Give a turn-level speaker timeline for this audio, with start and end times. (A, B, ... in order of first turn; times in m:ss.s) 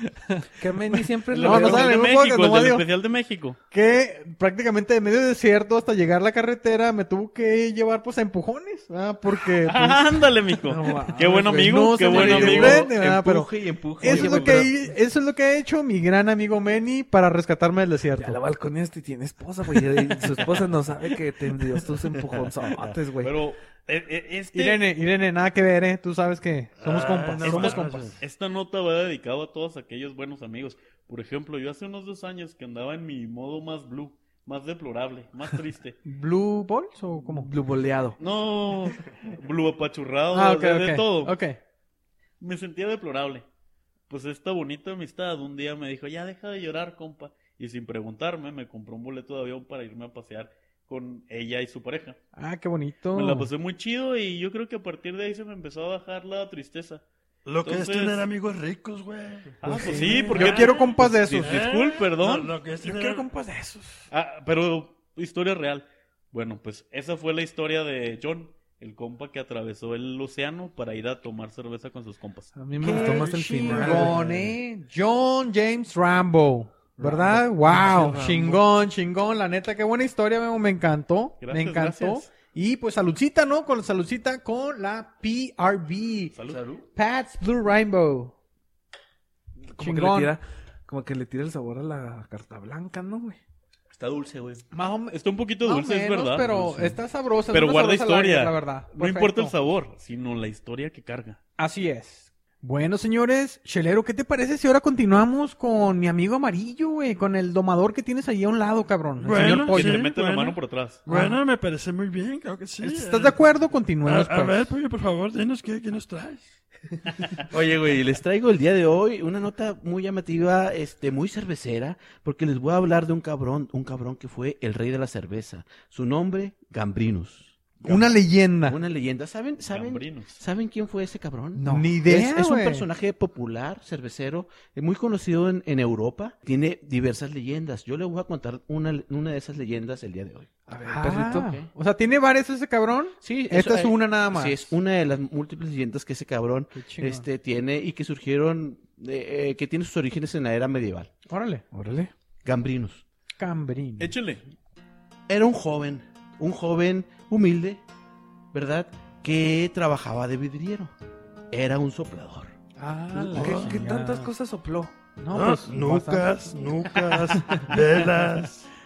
0:00.3-0:02.8 A
0:00.6-0:02.0 B
0:01.3-0:03.6 C
0:03.7-0:10.2 A
0:09.5-0:12.9 C
0:10.7-0:12.4 B
0:11.5-0:18.4 A
0:12.1-0:14.7 D
0:14.1-0:14.6 C
0:18.2-0:23.3 B
0:22.3-0:23.0 D
0:23.2-0:24.8 C
0:24.5-0:28.1 A
0:26.8-0:28.2 E
0:27.4-0:36.0 C
0:36.1-0:37.5 A
0:37.2-0:38.2 B
0:38.2-0:41.4 C
0:40.3-0:41.6 A
0:42.4-0:43.4 C
0:44.1-0:52.2 C
0:52.4-0:53.5 A
0:53.2-0:57.0 C
0:57.5-0:59.6 E
0:57.6-0:58.2 C
0:59.6-1:02.5 C
0:59.6-1:01.6 A
0:59.8-1:00.2 B
1:00.1-1:03.3 E
1:02.8-1:04.0 A
1:04.1-1:13.2 C
1:12.6-1:14.5 B
1:12.8-1:26.4 A
1:13.0-1:14.0 E
1:17.0-1:18.6 B
1:21.4-1:22.3 C
1:26.4-1:26.6 C
1:26.5-1:26.9 D
1:27.0-1:28.3 A
1:29.7-1:33.4 B
1:29.8-1:30.4 A
1:33.9-1:34.6 D
1:34.7-1:39.5 A
1:35.1-1:41.4 C
1:41.6-1:50.0 A
1:49.2-1:53.4 E
1:49.4-1:51.0 C
1:51.1-1:51.4 A
1:52.8-1:54.7 A
1:54.0-1:56.5 E
1:57.4-2:08.1 D
2:07.8-2:08.8 A
2:08.7-2:20.5 D
2:09.7-2:10.4 C
2:11.6-2:12.0 B
2:11.7-2:12.9 A
2:20.7-2:21.5 B
2:20.8-2:24.7 A
2:21.3-2:21.7 D
2:23.2-2:31.1 D
2:26.7-2:27.3 A
2:31.3-2:31.6 A
2:31.7-2:32.1 B
2:32.4-2:33.0 D
2:33.4-2:34.2 A
2:34.0-2:34.4 C
2:35.3-2:37.8 D
2:38.5-2:40.9 D
2:41.5-2:42.6 D
2:42.8-2:44.3 A
2:43.2-2:44.9 B
2:43.3-2:43.8 E
2:45.2-2:47.8 A
2:45.3-2:48.7 E